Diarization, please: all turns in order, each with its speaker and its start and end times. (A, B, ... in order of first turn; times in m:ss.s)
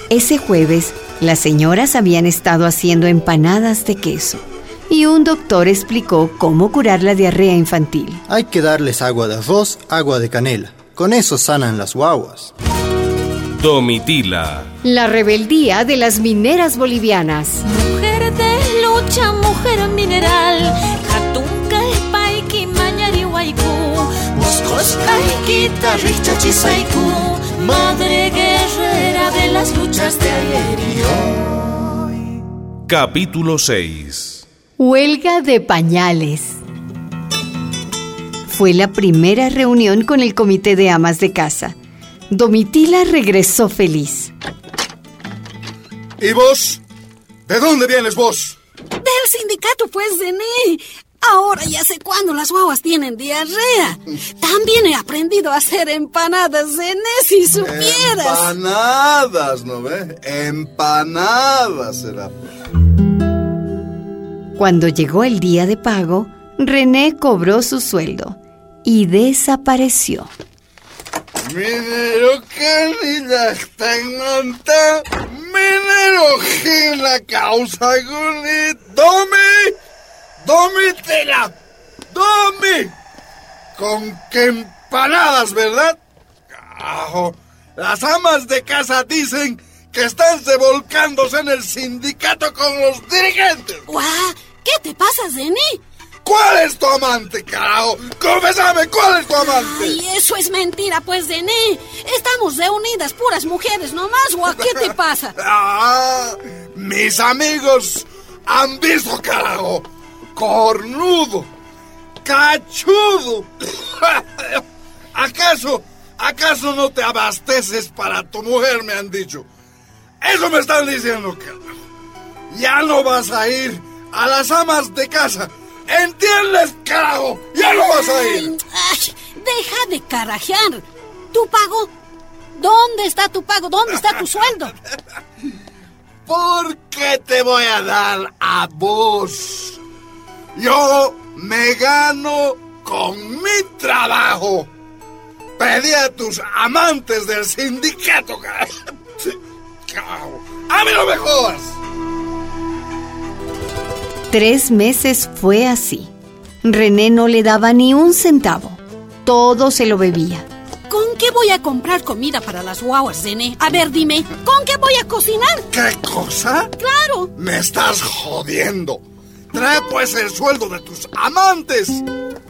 0:00.1-0:08.2 A
0:08.3-0:12.5 B
0:13.6-0:14.7 C
0:14.8-0:17.6 A
0:17.7-0:31.0 D
0:32.9-0:34.4 C
0:34.8-0:36.6 A
0:38.5-0:41.8 A
0:42.3-0:44.3 A
0:46.2-0:46.8 E
0:47.5-0:48.6 E
0:49.0-0:58.5 F
0:57.6-1:02.4 E
1:04.6-1:10.3 A
1:11.4-1:19.8 E
1:20.4-1:21.5 E
1:22.1-1:23.0 E
1:23.8-1:26.0 E
1:26.6-1:33.8 E
1:33.9-1:35.8 F
1:36.2-1:40.0 E
1:39.4-1:45.4 F
1:45.4-1:51.5 E
1:52.2-1:54.6 E
1:55.1-1:59.5 E
2:00.2-2:01.6 E
2:02.5-2:08.5 E
2:07.6-2:11.9 F
2:12.6-2:14.7 F
2:16.3-2:19.8 E
2:20.6-2:24.7 E
2:25.6-2:29.4 E
2:29.9-2:31.8 E
2:34.3-2:36.1 A
2:36.6-2:40.5 A
2:40.9-2:45.7 F
2:45.7-2:46.7 E
2:46.8-2:47.3 F
2:47.4-2:52.0 E